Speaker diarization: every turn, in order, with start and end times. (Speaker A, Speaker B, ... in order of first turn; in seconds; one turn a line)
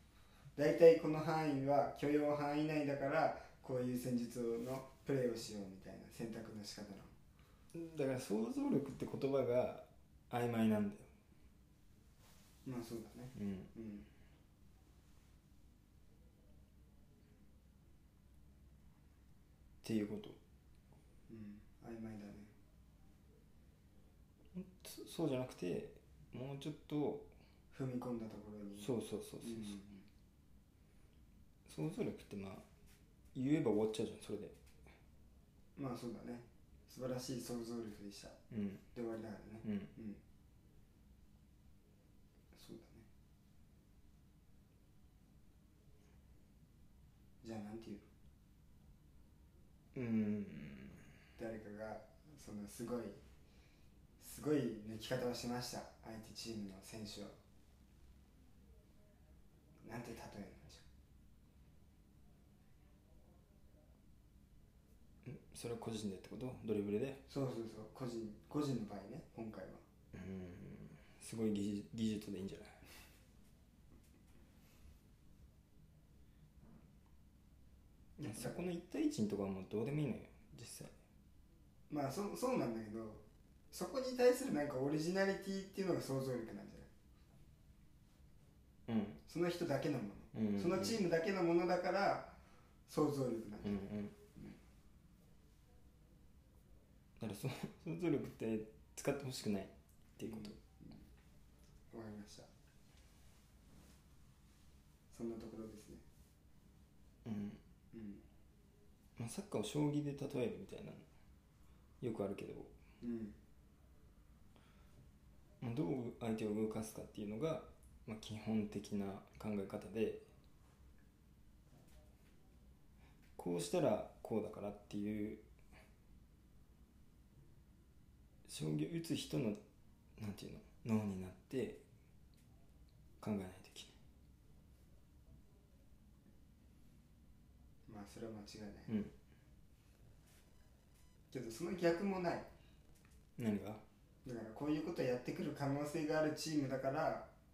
Speaker A: 0.6-7.1
Speaker B: 7.7-11.1
Speaker A: 12.6-14.1
Speaker B: 13.3-13.7
Speaker B: 19.8-20.4
Speaker A: 21.3-22.5
Speaker B: 24.5-27.3
Speaker A: 27.7-30.1
Speaker B: 28.8-29.8
Speaker B: 31.6-32.6
Speaker B: 33.3-34.6
Speaker A: 35.8-38.4
Speaker B: 38.5-38.8
Speaker A: 38.9-40.2
Speaker B: 39.6-39.9
Speaker A: 42.5-43.0
Speaker A: 47.4-48.1
Speaker B: 49.9-51.0
Speaker A: 51.4-53.2
Speaker A: 54.2-57.4
Speaker A: 59.8-60.9
Speaker B: 65.2-67.2
Speaker A: 67.3-69.8
Speaker B: 70.1-72.8
Speaker B: 78.2-80.9
Speaker A: 78.2-78.6
Speaker A: 81.9-86.9
Speaker B: 88.9-89.2
Speaker A: 89.3-92.4
Speaker B: 90.3-91.0
Speaker A: 92.9-94.6
Speaker B: 93.6-94.1
Speaker B: 97.2-100.5
Speaker A: 100.2-101.0
Speaker A: 101.9-102.5
Speaker A: 105.1-106.0
Speaker B: 107.2-107.6
Speaker A: 107.9-108.2
Speaker B: 109.2-111.0
Speaker B: 112.0-112.7
Speaker A: 113.0-113.4
Speaker B: 115.6-120.2
Speaker B: 123.4-125.5
Speaker B: 128.4-129.6
Speaker B: 130.2-131.8
Speaker B: 133.2-133.9
Speaker A: 137.9-139.0
Speaker B: 138.9-139.1
Speaker A: 141.3-142.5
Speaker B: 143.4-143.8
Speaker A: 144.2-147.3